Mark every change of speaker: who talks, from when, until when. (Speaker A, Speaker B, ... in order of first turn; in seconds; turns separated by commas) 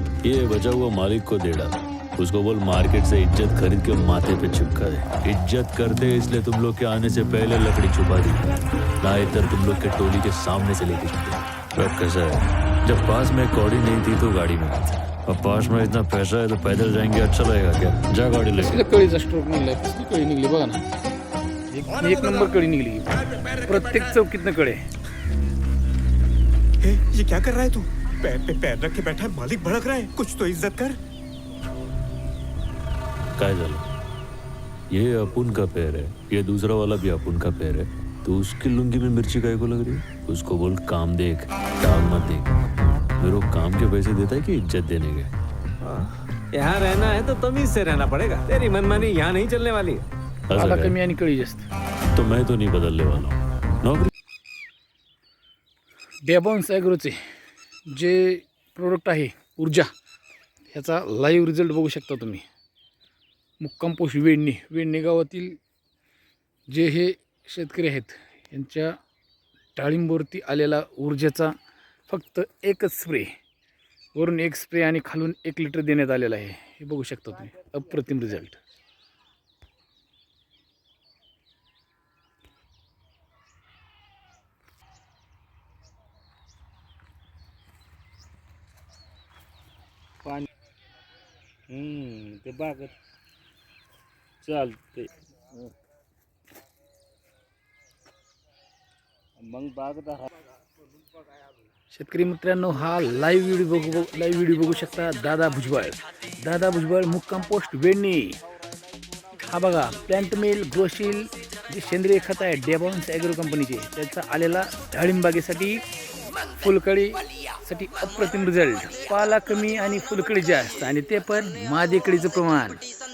Speaker A: 0.2-18.9, Speaker B: 18.6-20.8, Speaker B: 21.7-24.8, Speaker C: 26.8-31.0, Speaker A: 33.4-33.8, Speaker A: 34.9-42.5, Speaker A: 43.2-45.3, Speaker D: 45.8-50.0, Speaker A: 50.5-51.0, Speaker B: 50.5-51.7, Speaker A: 52.1-54.1, Speaker B: 56.2-57.1, Speaker B: 57.9-59.9, Speaker B: 60.7-62.4, Speaker B: 63.6-65.6, Speaker B: 66.7-68.9, Speaker B: 69.8-71.5, Speaker B: 72.1-73.3, Speaker B: 74.1-78.6, Speaker E: 91.7-92.9, Speaker E: 94.4-95.1, Speaker E: 99.4-100.3, Speaker B: 101.9-108.4, Speaker B: 109.4-115.8, Speaker B: 116.6-122.8